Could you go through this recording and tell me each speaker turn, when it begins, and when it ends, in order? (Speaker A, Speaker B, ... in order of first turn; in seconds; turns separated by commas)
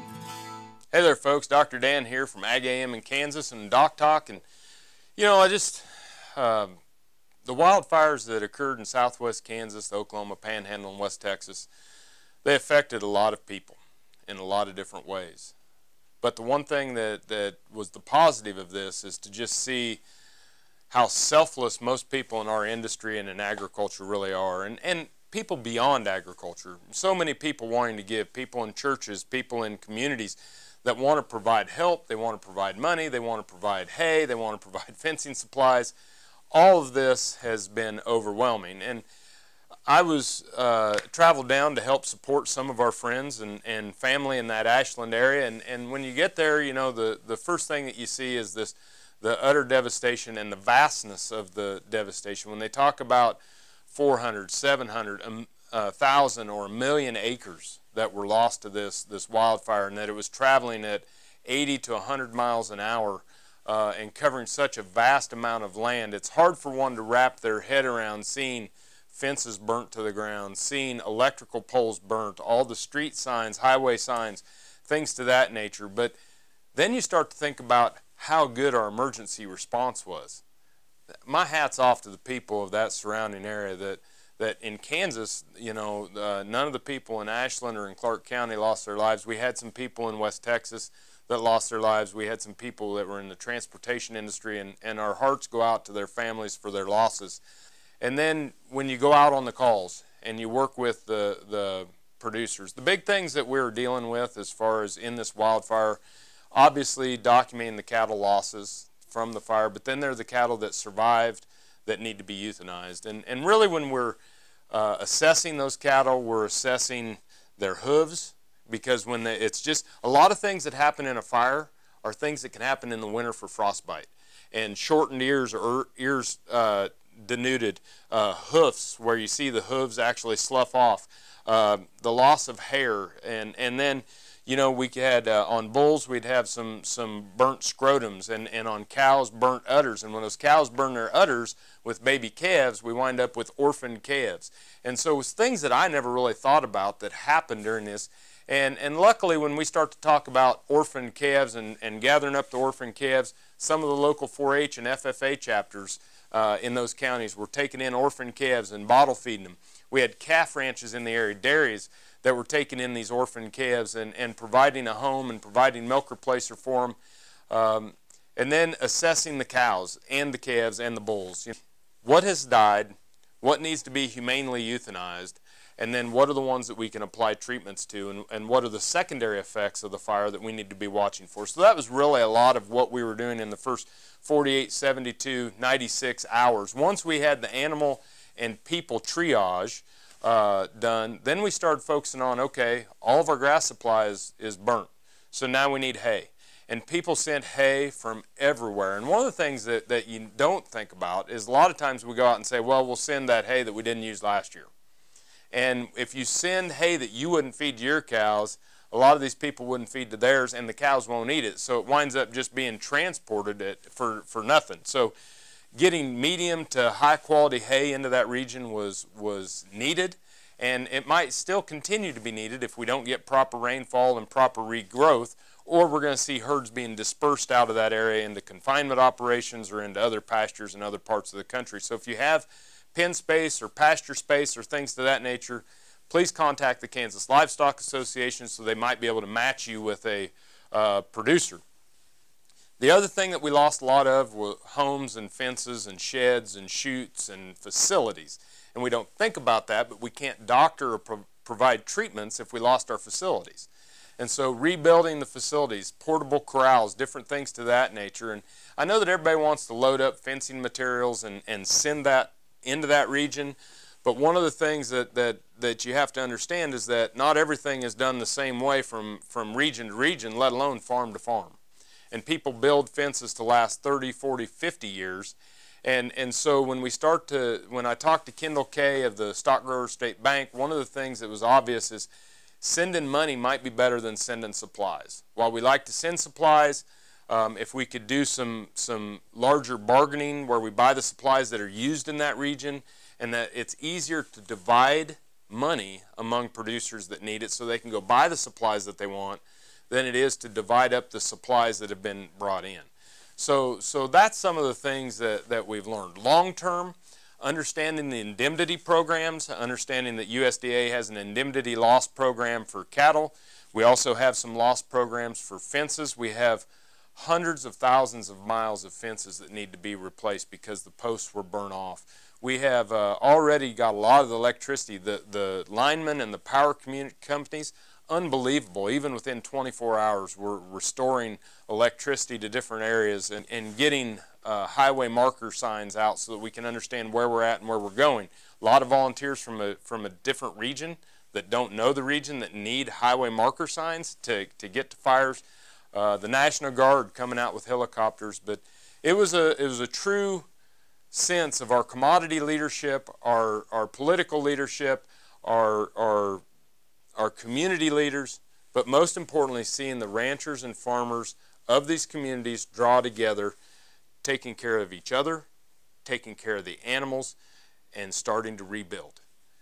Speaker A: 0.9-4.4, Speaker A: 5.2-6.8, Speaker A: 7.4-11.7, Speaker A: 12.4-15.5, Speaker A: 16.2-20.0, Speaker A: 20.9-35.9, Speaker A: 36.5-39.0, Speaker A: 39.9-76.2, Speaker A: 76.7-80.4, Speaker A: 81.2-97.4, Speaker A: 98.0-106.0, Speaker A: 106.5-114.2, Speaker A: 114.7-167.0, Speaker A: 167.5-204.7, Speaker A: 205.5-215.1, Speaker A: 215.7-241.6, Speaker A: 242.8-271.6, Speaker A: 272.1-282.1, Speaker A: 282.6-350.5, Speaker A: 351.1-356.4, Speaker A: 357.1-363.6, Speaker A: 364.2-365.5, Speaker A: 366.0-367.4, Speaker A: 367.9-369.2